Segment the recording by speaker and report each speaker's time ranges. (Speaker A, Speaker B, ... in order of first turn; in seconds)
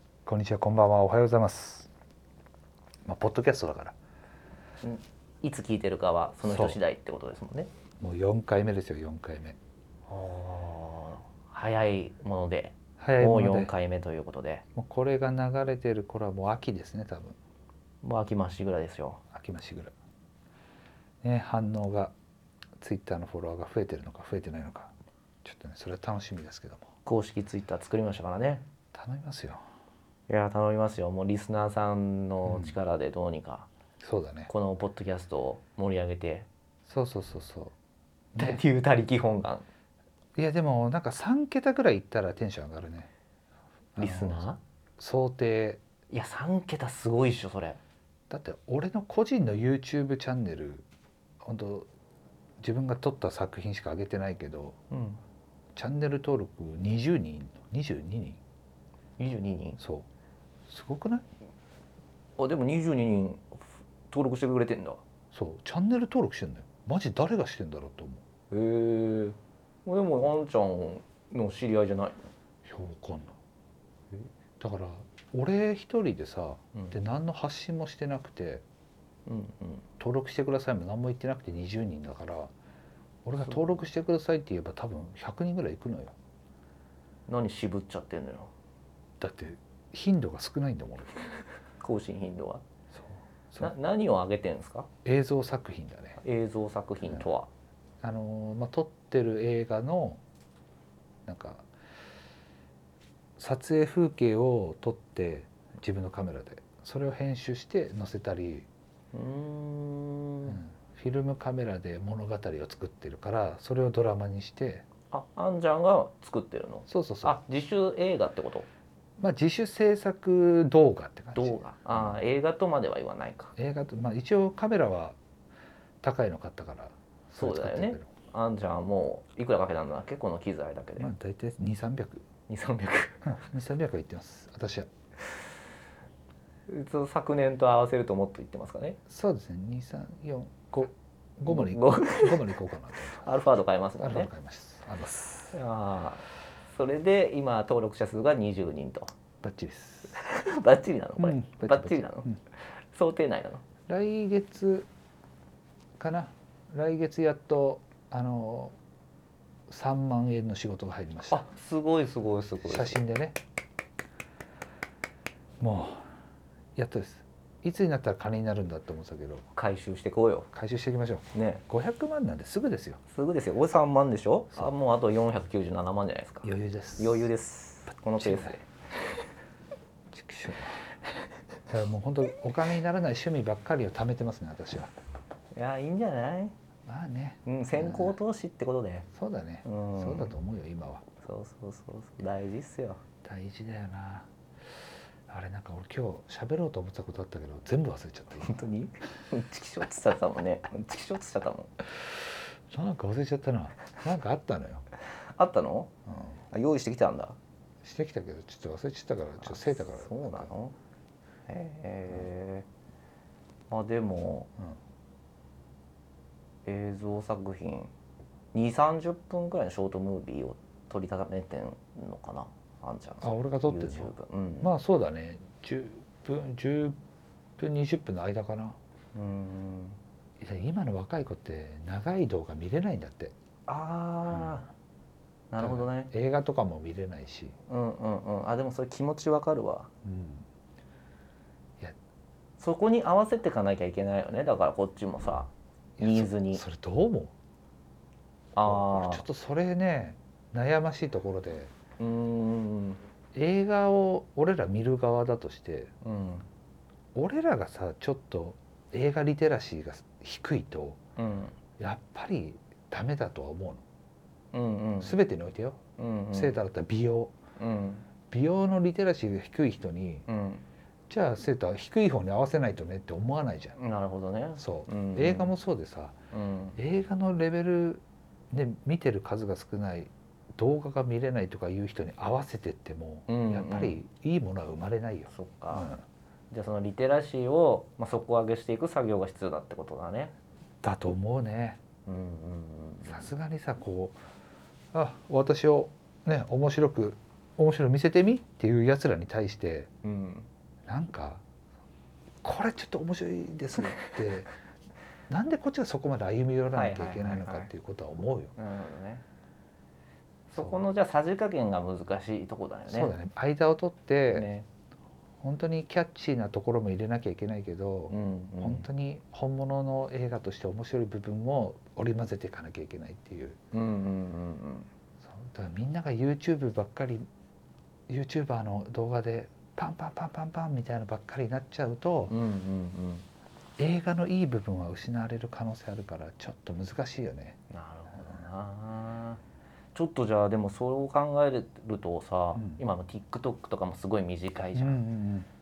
Speaker A: 0.3-1.9, 3.0-4.0, 6.5-6.8, 8.0-9.6, 13.0-13.7, 14.8-17.4, 19.3-19.9, 21.2-22.1, 22.8-26.9, 28.9-29.6, 32.5-32.8, 34.0-34.5, 36.9-37.7, 38.4-38.6, 40.4-43.1, 44.0-44.5, 45.0-45.8, 48.3-50.9, 51.4-51.9, 52.6-54.8, 55.8-58.4, 59.8-60.1, 60.7-61.3, 65.3-68.2, 72.7-73.4, 74.6-78.6, 80.0-82.5, 83.2-86.2, 89.2-91.2, 92.9-93.7, 95.0-96.2, 98.0-100.2, 101.3-101.7, 103.4-108.7, 110.5-114.8, 116.9-117.4, 119.2-122.2, 123.6-125.2, 126.0-128.1, 131.0-132.2, 133.3-134.9, 139.1-143.2, 144.0-145.6, 149.4-150.2, 151.2-152.4, 153.9-154.9, 156.0-158.8, 159.7-161.4, 162.6-163.4, 165.6-166.1, 166.8-169.5, 170.5-173.0, 176.4-177.3, 178.2-178.6, 180.1-180.8, 181.7-184.9, 186.9-188.2, 189.2-191.1, 193.2-194.3, 195.3-198.7, 202.7-204.8, 206.1-206.4, 207.8-210.5, 223.2-227.0, 227.6-228.8, 230.4-233.3, 234.3-234.6, 235.6-237.6, 240.0-240.5, 246.0-247.3, 248.6-251.7, 253.3-255.9, 257.1-261.0, 261.8-263.8, 265.0-265.8, 266.3-267.3, 268.3-270.2, 271.1-273.8, 274.6-276.1, 276.8-286.0, 290.8-291.8, 293.1-294.2, 294.9-299.9, 300.9-301.4, 302.4-304.5, 305.3-308.5, 312.9-314.5, 315.4-323.6, 325.2-327.3, 328.1-332.3, 333.8-337.6, 342.6-342.8, 344.8-345.5
Speaker B: 4.8-7.7, 10.1-14.6, 18.0-19.2, 27.1-28.6, 30.3-33.7, 34.5-36.5, 38.4-39.7, 44.0-44.6, 46.1-47.8, 54.9-55.2, 59.2-59.8, 62.4-65.0, 68.5-72.2, 79.3-79.8, 87.3-88.5, 91.8-92.6, 93.6-94.9, 96.2-97.5, 109.1-110.6, 115.1-118.7, 121.3-123.5, 127.3-131.1, 132.5-133.4, 136.7-139.0, 141.5-142.6, 143.2-144.3, 145.5-149.1, 150.1-153.7, 161.3-163.0, 169.6-170.5, 171.3-171.6, 173.1-178.7, 185.5-186.6, 187.5-189.1, 189.6-190.3, 191.2-193.0, 198.4-201.7, 205.2-205.9, 206.5-207.4, 209.4-210.8, 211.5-212.7, 213.7-214.5, 216.7-217.9, 218.5-224.7, 229.2-230.0, 233.7-234.7, 235.5-236.1, 237.7-239.9, 242.6-246.6, 248.6-249.2, 252.0-253.0, 256.0-256.5, 261.2-261.6, 264.5-265.2, 266.0-266.6, 267.6-268.1, 270.3-270.6, 273.8-275.5, 276.3-276.8, 283.3-284.0, 285.3-285.9, 286.5-290.3, 292.1-293.3, 300.0-300.5, 306.7-307.7, 308.6-309.2, 310.5-313.1, 314.3-314.7, 318.1-318.9, 323.7-324.9, 332.3-333.3, 337.7-339.4, 339.9-345.0